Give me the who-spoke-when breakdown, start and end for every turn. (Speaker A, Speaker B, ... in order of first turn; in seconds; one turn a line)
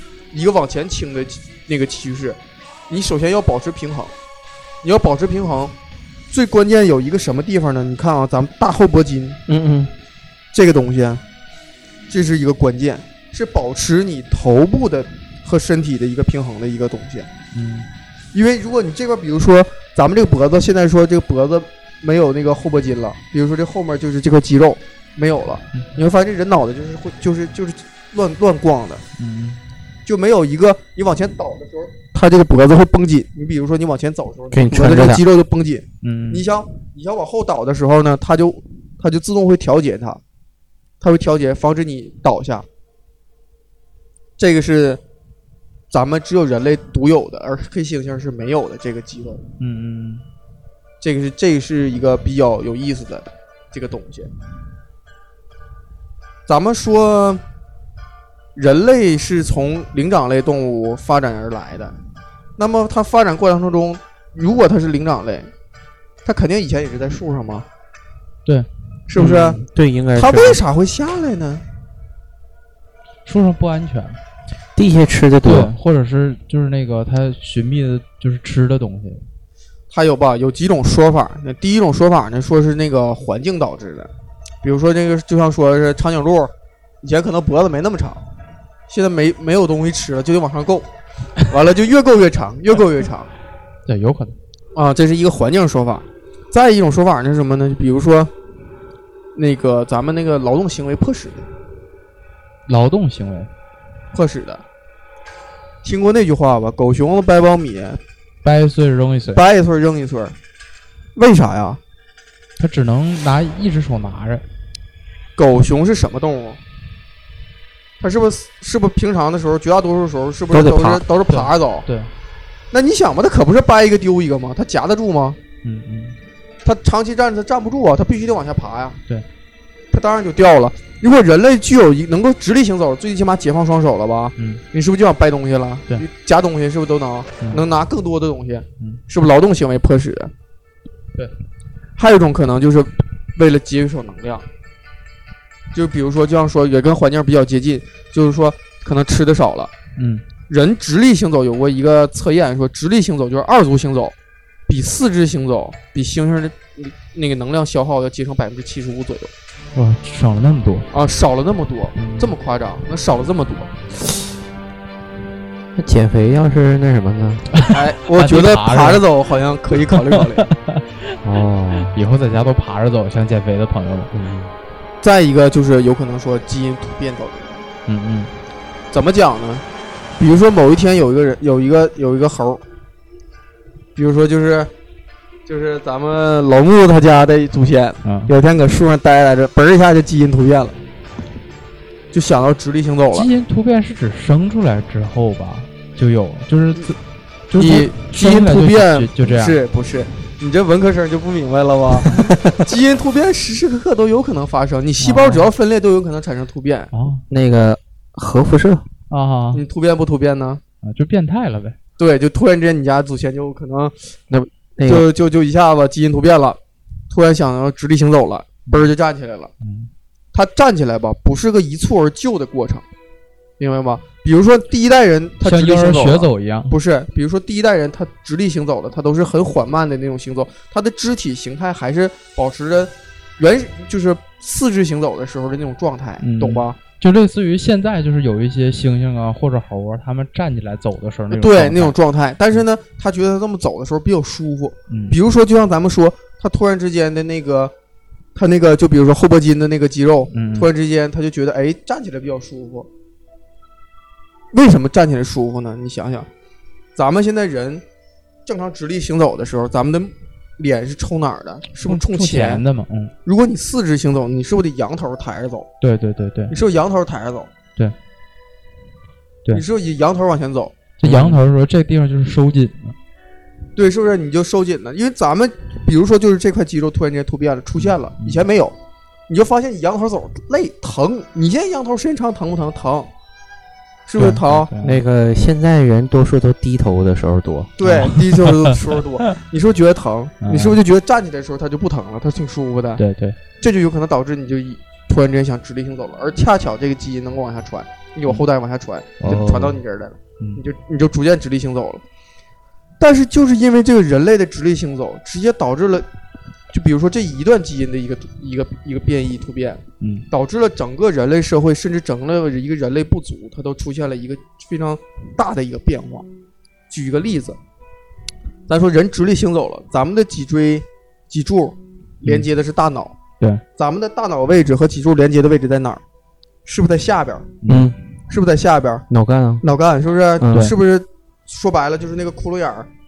Speaker A: 0.3-4.1
Speaker A: 4.8-5.7
Speaker A: 6.3-9.4
Speaker B: 9.5-9.9
Speaker A: 10.5-11.2
Speaker A: 12.1-17.3
Speaker C: 17.5-17.9
Speaker A: 18.3-29.0
Speaker C: 29.2-29.6
Speaker A: 30.1-40.2
Speaker B: 34.5-35.2
Speaker C: 36.0-36.5
Speaker A: 41.0-42.7
Speaker A: 44.4-45.0
Speaker A: 45.9-49.5
Speaker C: 49.6-50.2
Speaker A: 51.0-54.3
Speaker A: 56.5-57.4
Speaker A: 58.6-61.9
Speaker A: 62.6-65.5
Speaker A: 66.2-67.7
Speaker A: 69.1-69.6
Speaker B: 69.2-70.6
Speaker A: 70.2-71.6
Speaker C: 73.2-74.2
Speaker B: 74.8-75.7
Speaker C: 75.4-79.2
Speaker A: 79.9-84.1
Speaker A: 84.6-88.2
Speaker A: 88.9-90.9
Speaker A: 91.4-93.3
Speaker C: 93.9-94.4
Speaker A: 94.8-98.3
Speaker A: 99.3-101.5
Speaker C: 102.7-103.5
Speaker A: 104.1-104.6
Speaker A: 105.8-108.0
Speaker C: 108.4-109.4
Speaker A: 109.3-110.3
Speaker A: 111.2-111.8
Speaker C: 112.6-114.4
Speaker A: 115.4-116.6
Speaker A: 118.0-121.9
Speaker B: 120.5-121.0
Speaker C: 121.3-122.1
Speaker A: 122.7-125.4
Speaker C: 125.6-126.2
Speaker A: 126.6-129.0
Speaker A: 129.9-140.3
Speaker C: 134.4-134.6
Speaker A: 142.0-144.5
Speaker A: 145.7-149.7
Speaker C: 150.0-150.2
Speaker A: 150.5-154.2
Speaker A: 154.7-159.3
Speaker C: 159.8-160.9
Speaker A: 160.9-164.2
Speaker C: 162.0-162.3
Speaker B: 165.8-167.5
Speaker C: 167.5-169.0
Speaker A: 167.6-170.5
Speaker C: 169.9-171.2
Speaker B: 171.2-172.0
Speaker C: 171.8-174.1
Speaker B: 174.1-174.5
Speaker A: 175.0-177.6
Speaker C: 177.9-178.3
Speaker A: 178.9-179.7
Speaker A: 180.2-182.6
Speaker A: 184.0-184.7
Speaker A: 185.5-190.8
Speaker C: 188.0-188.3
Speaker A: 192.1-193.3
Speaker C: 193.1-197.0
Speaker C: 197.5-199.6
Speaker A: 197.6-206.9
Speaker C: 205.0-205.5
Speaker C: 206.9-207.2
Speaker B: 207.3-208.9
Speaker C: 209.1-209.6
Speaker A: 209.5-210.6
Speaker C: 210.8-211.8
Speaker A: 212.0-214.1
Speaker B: 214.3-215.1
Speaker A: 214.8-216.6
Speaker A: 217.1-219.5
Speaker C: 218.7-218.9
Speaker C: 219.6-219.9
Speaker A: 220.3-222.8
Speaker A: 223.6-236.8
Speaker C: 225.4-226.8
Speaker C: 236.2-241.9
Speaker A: 241.3-247.7
Speaker C: 244.9-245.2
Speaker A: 248.3-252.9
Speaker C: 250.3-250.7
Speaker A: 254.5-256.3
Speaker A: 257.0-257.8
Speaker A: 258.5-262.6
Speaker C: 261.8-263.1
Speaker A: 263.2-265.7
Speaker C: 265.8-266.6
Speaker A: 266.5-267.5
Speaker A: 269.5-270.9
Speaker C: 271.0-273.0
Speaker B: 271.1-271.4
Speaker A: 273.8-278.8
Speaker C: 277.8-278.4
Speaker A: 279.3-283.1
Speaker A: 284.1-284.7
Speaker C: 284.2-285.0
Speaker B: 284.8-287.7
Speaker A: 287.8-293.0
Speaker C: 287.8-289.3
Speaker C: 290.4-290.8
Speaker C: 293.0-293.4
Speaker A: 293.6-302.0
Speaker B: 299.2-299.8
Speaker C: 299.3-299.6
Speaker A: 303.0-306.1
Speaker A: 306.7-316.3
Speaker C: 310.0-310.3
Speaker A: 316.9-317.6
Speaker A: 318.7-323.2
Speaker A: 323.8-326.0
Speaker A: 326.6-327.5
Speaker C: 327.6-327.9
Speaker B: 327.7-328.0
Speaker A: 328.3-329.1
Speaker B: 329.1-329.6
Speaker A: 329.6-332.9
Speaker B: 330.4-330.7
Speaker C: 330.5-330.8